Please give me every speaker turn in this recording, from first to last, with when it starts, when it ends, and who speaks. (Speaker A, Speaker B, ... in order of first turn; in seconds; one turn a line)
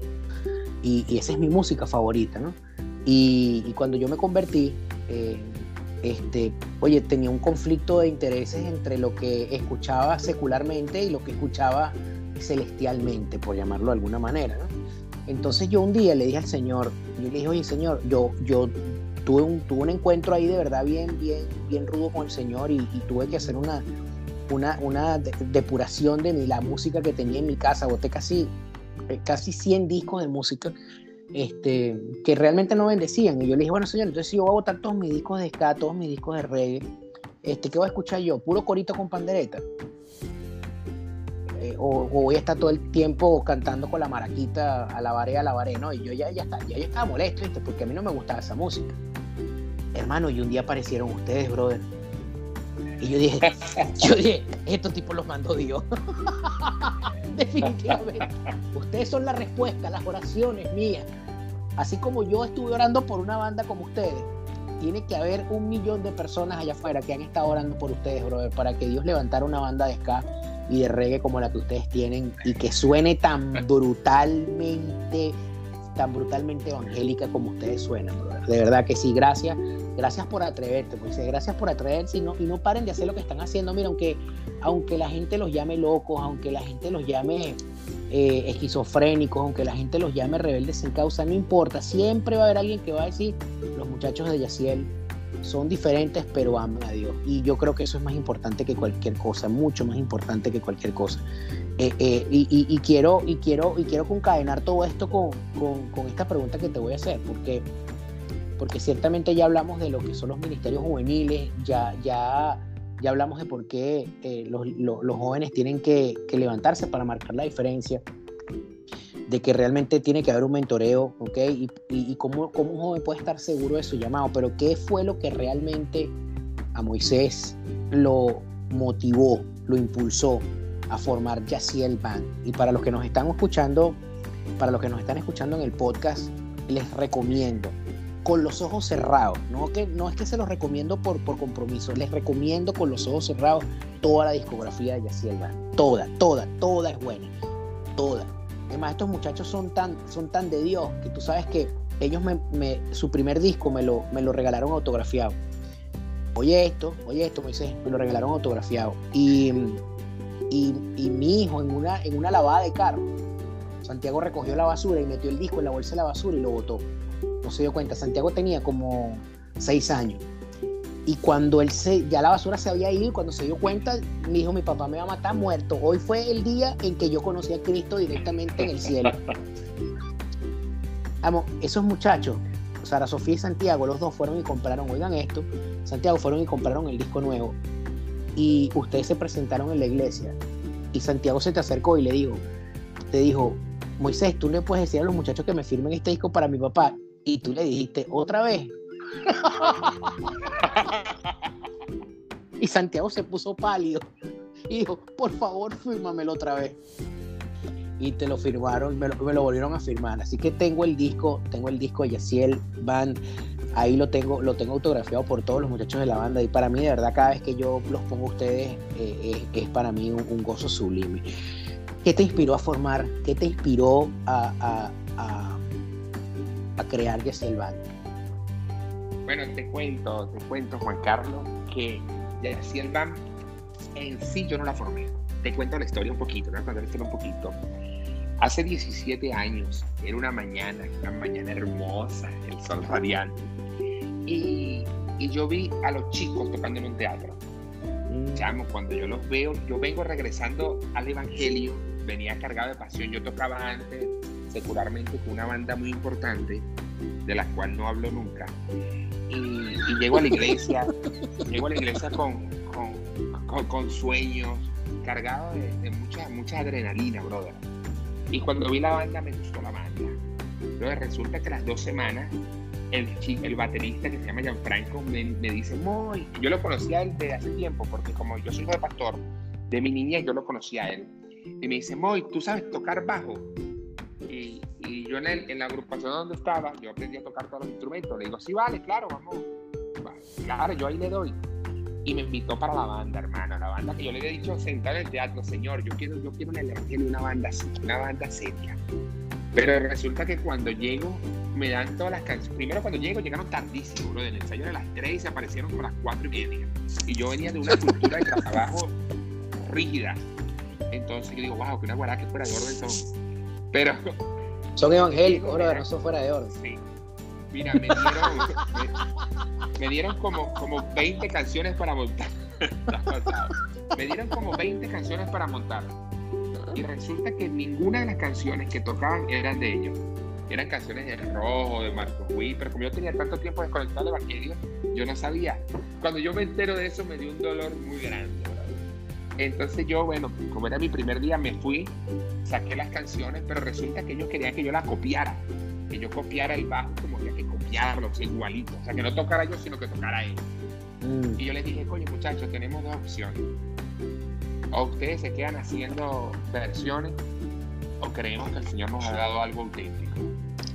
Speaker A: 0.8-14.7
Speaker A: 15.3-23.9
Speaker A: 24.5-28.5
Speaker A: 29.1-30.7
Speaker A: 31.3-36.9
Speaker A: 37.4-39.6
Speaker A: 41.6-48.9
Speaker A: 49.9-51.9
Speaker A: 53.0-61.1
Speaker B: 53.5-53.8
Speaker A: 61.8-75.4
Speaker A: 76.0-87.6
Speaker A: 88.1-94.9
Speaker A: 95.4-101.2
Speaker A: 101.8-107.7
Speaker A: 108.6-118.0
Speaker A: 119.3-126.1
Speaker A: 126.7-134.0
Speaker A: 134.6-147.3
Speaker A: 148.0-155.4
Speaker A: 156.3-159.8
Speaker A: 160.5-163.1
Speaker A: 163.8-166.8
Speaker A: 167.4-170.2
Speaker A: 171.1-179.2
Speaker B: 179.0-179.3
Speaker A: 181.2-187.6
Speaker A: 188.3-190.3
Speaker A: 190.9-192.4
Speaker A: 193.1-198.7
Speaker A: 199.2-200.3
Speaker B: 200.5-201.5
Speaker A: 202.6-204.1
Speaker A: 204.7-206.8
Speaker A: 208.0-213.2
Speaker A: 213.7-221.2
Speaker A: 222.0-225.6
Speaker A: 226.8-227.8
Speaker B: 229.3-233.2
Speaker B: 233.9-237.6
Speaker B: 238.4-243.5
Speaker B: 244.2-247.4
Speaker A: 248.1-248.5
Speaker B: 248.3-256.7
Speaker B: 257.2-258.6
Speaker B: 259.3-260.9
Speaker A: 260.2-260.6
Speaker B: 261.4-267.6
Speaker B: 268.3-270.2
Speaker B: 270.8-272.4
Speaker B: 272.9-283.5
Speaker B: 284.3-289.5
Speaker B: 290.0-291.4
Speaker B: 292.0-298.8
Speaker B: 299.5-309.0
Speaker B: 309.6-310.3
Speaker B: 310.9-313.1
Speaker B: 313.7-314.1
Speaker A: 314.8-316.5
Speaker B: 314.9-315.9
Speaker B: 316.5-316.8
Speaker B: 317.5-318.9
Speaker A: 317.8-318.4
Speaker B: 319.8-325.9
Speaker B: 326.7-338.8
Speaker B: 339.4-350.5
Speaker A: 351.0-351.4
Speaker B: 351.4-353.5
Speaker B: 354.7-357.1
Speaker B: 358.0-360.3